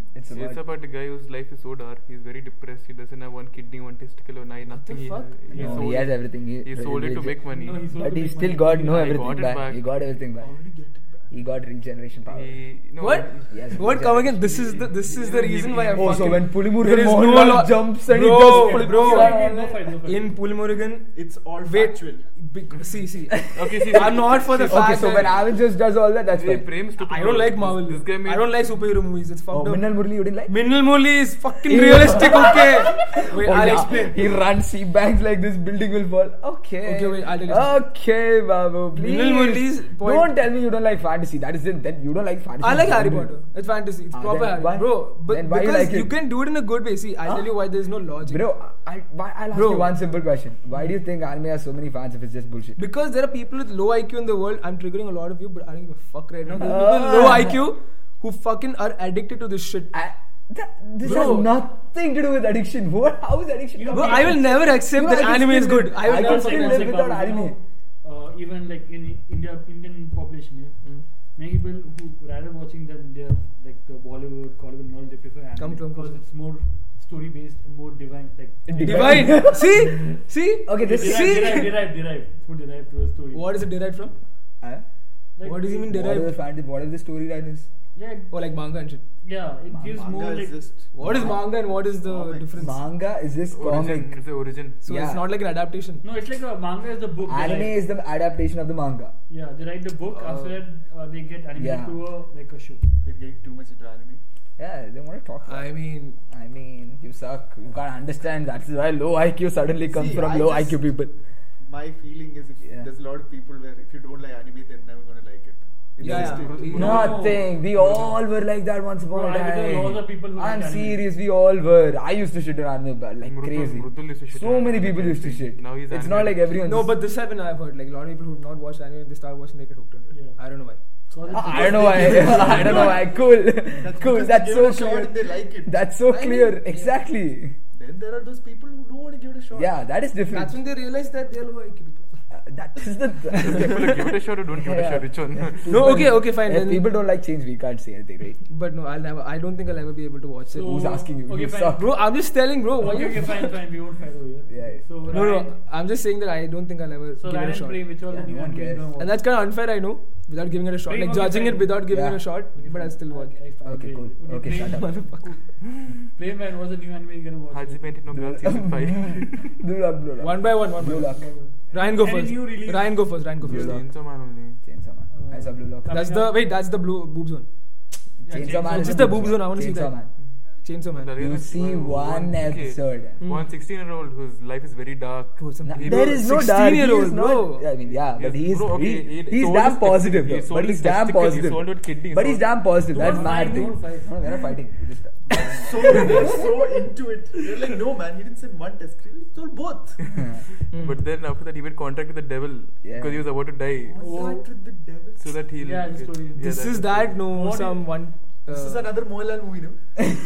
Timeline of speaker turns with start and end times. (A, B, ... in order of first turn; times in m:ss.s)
0:00.1-0:00.6 A
0:00.3-0:08.0 B
0:04.7-0:05.7 C
0:05.5-0:06.1 D
0:05.5-0:10.5 A
0:07.4-0:09.1 D
0:08.8-0:09.9 B
0:10.4-0:11.3 E
0:11.3-0:12.6 A
0:12.2-0:16.4 B
0:13.0-0:19.4 C
0:13.5-0:14.3 A
0:15.9-0:19.8 A
0:18.2-0:20.4 D
0:20.0-0:21.1 C
0:21.1-0:22.2 E
0:21.6-0:25.4 C
0:23.3-0:26.7 A
0:23.5-0:25.4 B
0:26.3-0:28.6 B
0:27.0-0:29.9 C
0:29.5-0:30.6 A
0:30.4-0:34.2 C
0:31.6-0:43.3 A
0:36.8-0:37.8 C
0:38.9-0:40.3 C
0:42.6-0:48.4 C
0:44.1-0:46.1 A
0:47.2-0:47.5 A
0:48.2-0:52.8 A
0:49.5-0:49.9 C
0:52.8-0:59.9 C
0:56.5-0:57.6 A
0:59.9-1:07.6 A
1:01.0-1:01.5 C
1:03.7-1:04.6 D
1:03.9-1:07.0 C
1:06.0-1:23.5 D
1:15.6-1:16.2 C
1:18.7-1:19.9 A
1:18.8-1:21.7 C
1:20.6-1:21.6 A
1:23.3-1:24.1 C
1:25.4-1:25.8 D
1:25.4-1:26.3 C
1:25.9-1:27.7 A
1:27.9-1:28.4 D
1:28.3-1:29.0 C
1:29.2-1:30.6 D
1:29.7-1:30.0 A
1:29.9-1:32.7 E
1:30.9-1:32.8 C
1:31.0-1:31.4 A
1:32.6-1:34.2 A
1:33.5-1:34.8 B
1:34.8-1:36.0 C
1:34.8-1:35.2 A
1:36.0-1:37.8 D
1:37.2-1:39.1 A
1:39.3-1:42.9 D
1:40.1-1:40.6 C
1:41.5-1:42.0 A
1:43.0-1:44.2 E
1:44.6-1:45.7 A
1:45.4-1:46.2 C
1:46.3-1:51.1 A
1:49.8-1:50.8 E
1:51.6-1:56.8 E
1:56.0-1:57.0 C
1:56.0-1:58.1 B
1:56.0-2:06.9 A
1:56.7-1:58.0 D
1:59.1-2:01.0 D
2:03.2-2:06.6 B
2:06.6-2:13.0 C
2:10.1-2:10.4 D
2:11.1-2:13.0 D
2:11.3-2:17.6 A
2:13.8-2:15.8 E
2:16.1-2:17.0 C
2:17.7-2:19.7 E
2:19.5-2:20.6 A
2:20.3-2:22.1 C
2:22.3-2:28.4 A
2:23.4-2:26.0 B
2:25.6-2:26.9 C
2:28.5-2:30.9 C
2:30.5-2:31.9 D
2:30.6-2:31.9 A
2:31.7-2:33.6 C
2:32.8-2:35.5 D
2:34.5-2:34.8 A
2:35.1-2:37.9 C
2:37.2-2:39.2 D
2:38.1-2:38.9 A
2:39.0-2:43.4 C
2:40.9-2:41.8 D
2:41.9-2:42.2 A
2:42.5-2:45.1 D
2:43.6-2:45.0 A
2:44.5-2:45.4 C
2:45.6-2:46.0 B
2:46.2-2:48.0 D
2:47.5-2:49.5 B
2:48.1-2:51.4 A
2:50.2-2:53.8 C
2:51.0-2:53.2 D
2:53.4-2:53.9 A
2:53.4-2:54.6 B
2:54.6-2:56.0 A
2:55.1-2:56.3 D
2:55.9-2:57.5 C
2:58.2-2:59.3 D
2:58.3-3:00.1 A
2:58.5-3:00.0 C
3:00.6-3:01.1 C
3:00.9-3:06.2 B
3:01.2-3:03.2 A
3:03.2-3:03.5 C
3:05.4-3:07.7 C
3:05.6-3:16.4 A
3:07.9-3:12.6 B
3:12.9-3:14.2 D
3:15.4-3:20.0 E
3:20.1-3:24.0 B
3:20.1-3:20.4 A
3:20.7-3:21.0 C
3:22.8-3:23.2 A
3:23.9-3:25.4 E
3:24.0-3:24.4 D
3:25.2-3:27.2 B
3:25.6-3:26.5 D
3:26.4-3:28.9 C
3:27.2-3:28.0 D
3:28.5-3:30.0 E